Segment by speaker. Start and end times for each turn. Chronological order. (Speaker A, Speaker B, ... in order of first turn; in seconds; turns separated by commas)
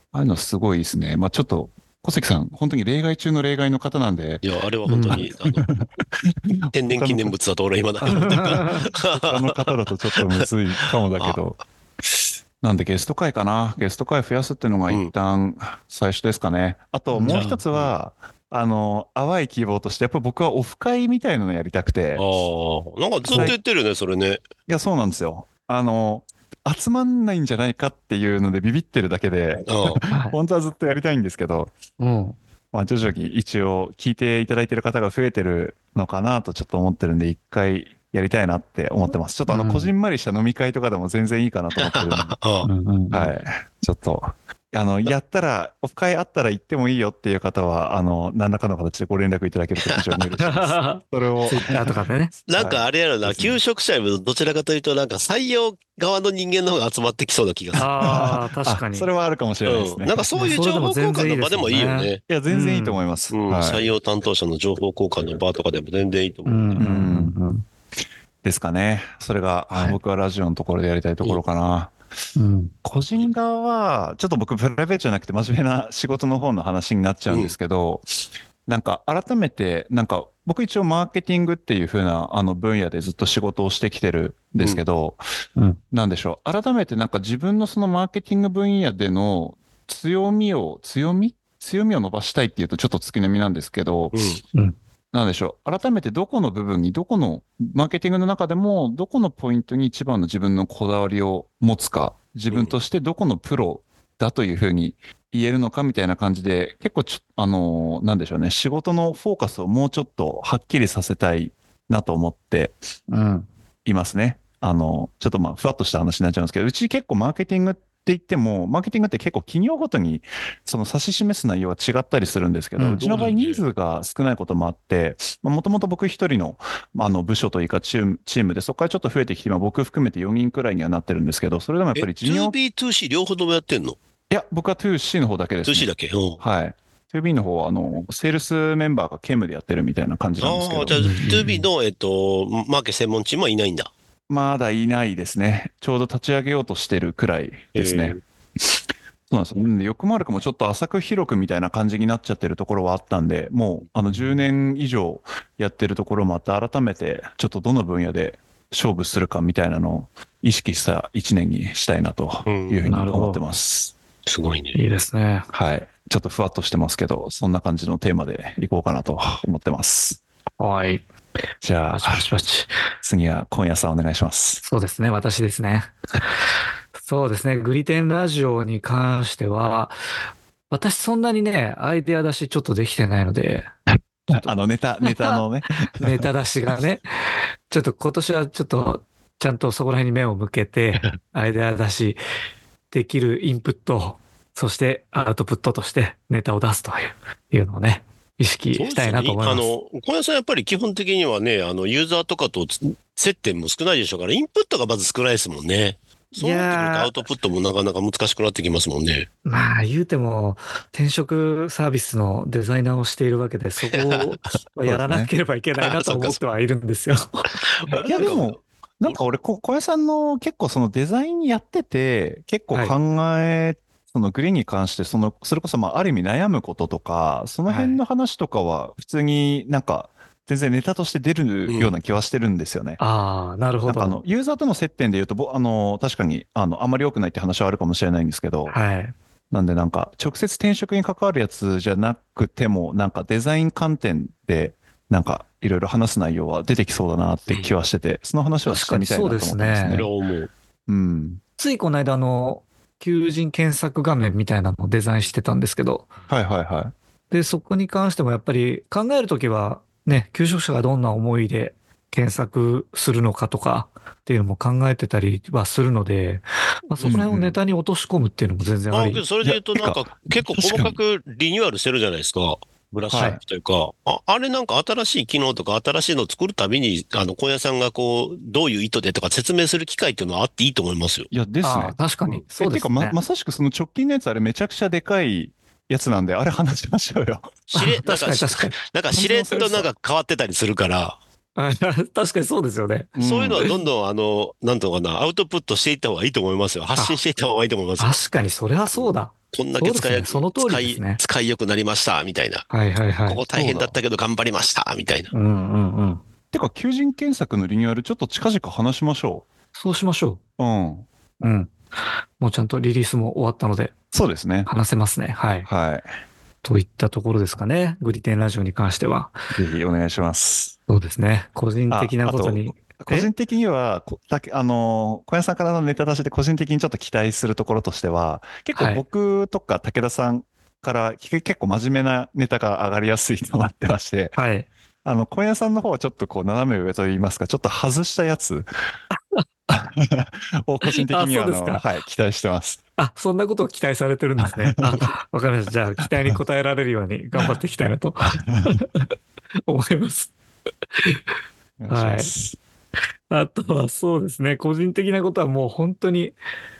Speaker A: 0.1-4.4, Speaker B: 4.4-5.7, Speaker C: 4.9-5.2, Speaker A: 5.1-7.3, Speaker B: 6.7-10.4, Speaker A: 8.0-11.6, Speaker C: 8.1-8.8, Speaker B: 11.1-11.4, Speaker A: 12.6-22.2, Speaker C: 17.1-17.6, Speaker B: 17.2-17.9, Speaker B: 22.1-24.4, Speaker A: 23.2-23.6, Speaker C: 23.3-23.6, Speaker A: 24.7-31.7, Speaker B: 29.7-30.0, Speaker C: 30.1-30.4, Speaker C: 32.0-32.4, Speaker A: 32.7-42.4, Speaker C: 39.5-39.9, Speaker B: 41.8-42.7, Speaker C: 42.6-43.3, Speaker A: 43.1-51.9, Speaker B: 49.8-50.2, Speaker C: 50.4-52.3, Speaker B: 52.5-58.2, Speaker A: 52.5-53.6, Speaker A: 57.7-60.3, Speaker C: 57.8-59.1, Speaker B: 59.6-62.2, Speaker C: 60.4-63.0, Speaker A: 62.3-63.9, Speaker B: 63.3-66.8, Speaker C: 66.5-67.6, Speaker A: 66.8-67.3, Speaker A: 68.4-71.9, Speaker C: 69.7-70.0, Speaker C: 72.3-72.7, Speaker A: 72.8-78.0, Speaker B: 77.3-77.5, Speaker A: 78.7-85.2, Speaker A: 85.9-94.2, Speaker B: 94.1-94.4, Speaker A: 95.1-112.7, Speaker C: 113.1-113.5, Speaker A: 113.8-132.5, Speaker C: 122.8-123.1, Speaker B: 123.0-123.6, Speaker B: 131.9-134.0, Speaker A: 134.3-141.0, Speaker B: 135.6-136.4, Speaker B: 140.4-143.9, Speaker C: 140.9-141.7, Speaker A: 144.3-148.2, Speaker B: 147.7-148.2, Speaker A: 149.3-163.9, Speaker B: 162.4-162.8, Speaker C: 162.8-163.4, Speaker B: 164.2-164.8, Speaker C: 164.7-165.5, Speaker A: 165.5-170.2, Speaker C: 170.6-171.0, Speaker A: 171.6-172.3, Speaker C: 171.9-172.7, Speaker A: 173.0-174.6, Speaker C: 174.6-175.9, Speaker C: 177.0-180.0, Speaker C: 180.7-183.7, Speaker A: 184.3-186.2, Speaker C: 185.0-187.1, Speaker C: 187.7-192.2, Speaker C: 192.9-199.7, Speaker B: 198.7-209.3, Speaker C: 206.3-207.1, Speaker C: 209.4-218.0, Speaker B: 213.9-214.4, Speaker A: 214.8-215.3, Speaker B: 215.8-216.4, Speaker B: 217.6-219.2, Speaker A: 218.1-233.0, Speaker C: 227.7-228.0, Speaker B: 231.7-231.9, Speaker C: 233.0-234.2, Speaker A: 233.8-238.8, Speaker C: 238.7-239.1, Speaker A: 239.5-250.1, Speaker C: 248.7-250.0, Speaker B: 249.9-250.5, Speaker A: 250.9-251.4, Speaker C: 251.6-256.1, Speaker A: 256.3-256.9, Speaker C: 257.3-269.2, Speaker A: 267.0-267.6, Speaker B: 268.9-281.3, Speaker A: 269.4-271.0, Speaker A: 273.1-273.4, Speaker C: 273.1-273.4, Speaker A: 281.3-282.0, Speaker C: 281.6-283.2, Speaker A: 282.5-287.6, Speaker B: 287.7-291.2, Speaker C: 287.7-288.8, Speaker A: 289.1-289.9, Speaker C: 291.6-293.7, Speaker A: 293.1-293.7, Speaker B: 293.2-298.1, Speaker C: 298.0-301.2, Speaker B: 298.9-302.6, Speaker C: 302.7-303.4, Speaker B: 303.3-305.3, Speaker A: 303.5-303.9, Speaker C: 305.3-306.2, Speaker A: 306.5-309.4, Speaker C: 309.7-310.4, Speaker A: 310.6-311.1, Speaker C: 311.4-311.7, Speaker C: 312.4-313.9, Speaker A: 314.1-314.7, Speaker C: 314.6-315.7, Speaker A: 315.6-316.1, Speaker C: 316.6-319.4, Speaker A: 319.5-320.7, Speaker C: 320.9-323.3, Speaker A: 321.9-334.4, Speaker C: 328.7-329.0, Speaker C: 334.3-334.7, Speaker A: 335.0-338.7, Speaker A: 339.7-342.8, Speaker C: 340.9-341.8, Speaker C: 343.0-349.1, Speaker A: 344.4-345.1, Speaker C: 349.6-350.3, Speaker A: 351.8-352.6, Speaker C: 351.9-352.3, Speaker C: 353.3-356.4